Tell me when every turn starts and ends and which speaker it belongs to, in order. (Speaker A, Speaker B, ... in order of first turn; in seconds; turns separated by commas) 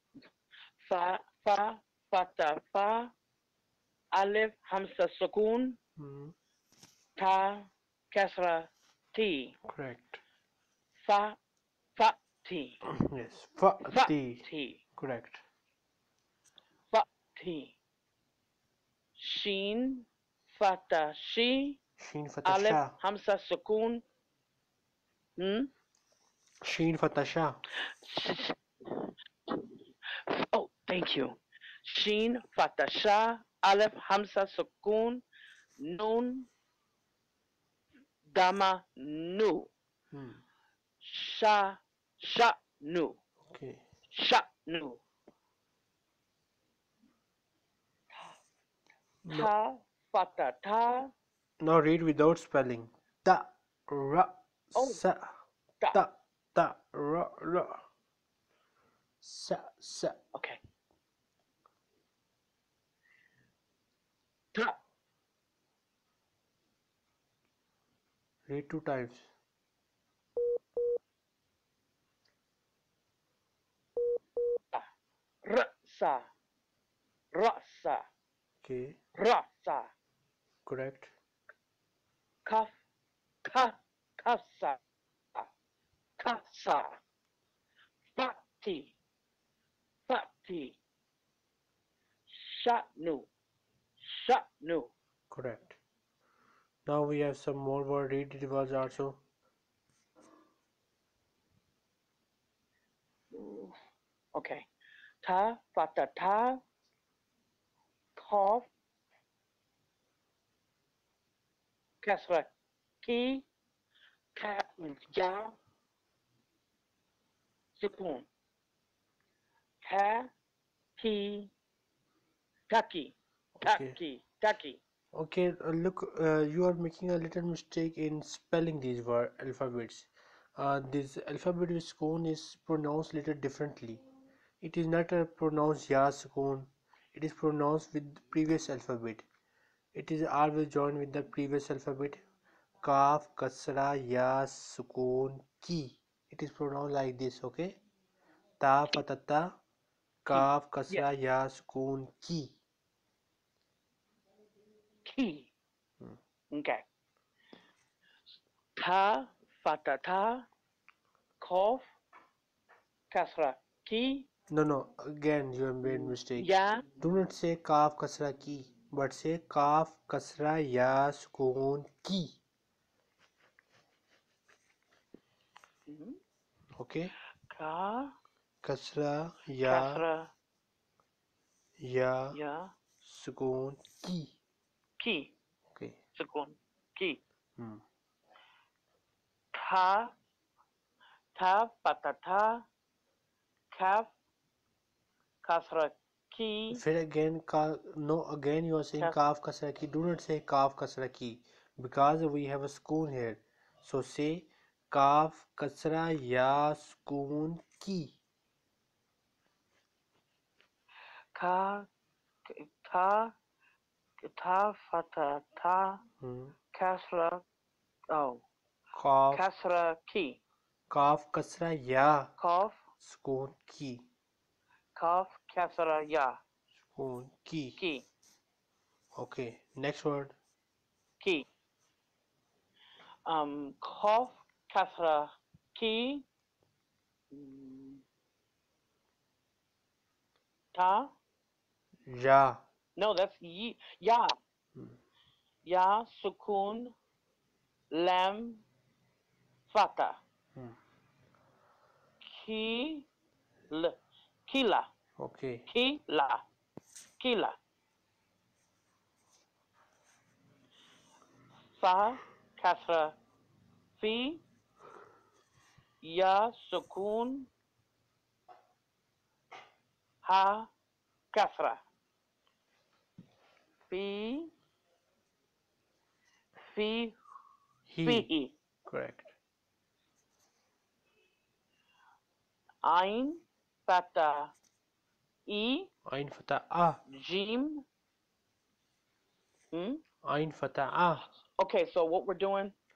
Speaker A: 0.8-3.1, Speaker A: 4.1-5.8, Speaker B: 6.0-6.3, Speaker A: 7.2-9.6, Speaker B: 9.7-10.2, Speaker A: 11.0-11.4, Speaker A: 12.0-12.8, Speaker B: 12.8-15.4, Speaker A: 13.8-14.8, Speaker A: 16.9-17.8, Speaker A: 19.2-21.8, Speaker B: 22.0-22.9, Speaker A: 22.4-24.0, Speaker A: 25.4-25.7, Speaker B: 26.6-27.6, Speaker A: 27.9-28.6, Speaker A: 30.3-35.2, Speaker A: 35.8-36.5, Speaker A: 38.3-39.7, Speaker B: 40.1-40.4, Speaker A: 41.0-43.2, Speaker B: 43.4-43.8, Speaker A: 44.1-45.0, Speaker B: 49.2-49.5, Speaker A: 49.3-51.1, Speaker B: 51.6-55.3, Speaker A: 54.8-55.0, Speaker B: 55.9-57.8, Speaker B: 59.2-60.2, Speaker B: 68.5-69.3, Speaker A: 75.4-76.3, Speaker A: 77.3-78.1, Speaker B: 78.6-79.0, Speaker A: 79.2-79.9, Speaker B: 80.7-81.1, Speaker A: 82.5-82.8, Speaker A: 83.4-84.8, Speaker A: 86.2-87.0, Speaker A: 88.2-88.9, Speaker A: 90.1-90.8, Speaker A: 92.3-93.3, Speaker A: 94.0-94.9, Speaker B: 95.3-95.8, Speaker B: 96.9-99.2, Speaker A: 103.3-103.8, Speaker A: 104.3-104.7, Speaker A: 105.2-106.6, Speaker A: 108.2-108.7, Speaker A: 112.0-112.5, Speaker A: 113.0-113.5, Speaker A: 114.3-115.5, Speaker A: 117.8-118.3, Speaker A: 119.8-120.3, Speaker A: 121.0-121.5, Speaker A: 122.7-124.8, Speaker B: 123.6-124.0, Speaker B: 125.1-134.0, Speaker B: 134.6-139.3, Speaker B: 139.9-142.2, Speaker B: 142.8-147.8, Speaker B: 148.6-149.6, Speaker B: 150.2-152.6, Speaker A: 150.3-151.1, Speaker A: 155.1-155.5, Speaker A: 156.5-156.8, Speaker A: 158.8-160.5, Speaker A: 161.4-161.9, Speaker A: 163.1-164.3, Speaker B: 164.5-172.4, Speaker A: 165.8-166.9, Speaker A: 175.9-176.2, Speaker B: 176.8-177.1, Speaker A: 177.5-178.2, Speaker B: 178.6-180.0, Speaker A: 179.6-180.3, Speaker B: 181.8-182.4, Speaker A: 182.3-182.7, Speaker B: 183.0-184.4, Speaker A: 185.0-185.3, Speaker A: 186.2-187.2, Speaker B: 187.6-187.8, Speaker A: 189.5-190.1, Speaker A: 191.3-192.7, Speaker A: 193.7-194.1, Speaker A: 195.4-196.8, Speaker B: 196.7-208.2, Speaker A: 211.3-211.9, Speaker A: 212.5-213.4, Speaker A: 214.2-216.0, Speaker B: 216.2-216.6, Speaker A: 216.7-217.4, Speaker A: 218.1-218.4, Speaker B: 218.9-219.4, Speaker A: 219.3-220.4, Speaker B: 220.9-222.3, Speaker A: 222.4-222.8, Speaker B: 223.0-224.1, Speaker A: 224.9-226.4, Speaker B: 226.9-227.8, Speaker A: 227.8-228.1, Speaker B: 229.1-230.3, Speaker A: 231.2-231.5, Speaker A: 233.3-236.3, Speaker A: 237.3-238.0, Speaker A: 240.7-241.1, Speaker B: 242.1-242.6, Speaker A: 243.0-244.3, Speaker A: 245.6-246.9, Speaker A: 247.9-248.6, Speaker A: 249.7-250.2, Speaker A: 252.2-253.1, Speaker A: 253.7-254.9, Speaker B: 255.2-255.7, Speaker A: 255.7-256.4, Speaker A: 257.2-257.6, Speaker A: 261.8-263.2, Speaker A: 264.0-264.4, Speaker A: 266.0-267.5, Speaker A: 270.2-270.7, Speaker A: 271.3-271.8, Speaker A: 273.9-274.5, Speaker A: 276.7-277.2, Speaker B: 277.9-278.3, Speaker A: 278.0-278.5, Speaker B: 278.9-279.3, Speaker A: 282.8-284.5, Speaker A: 285.5-285.9, Speaker B: 286.1-287.0, Speaker A: 287.1-287.9, Speaker A: 289.7-290.0, Speaker B: 290.2-291.3, Speaker A: 291.6-292.8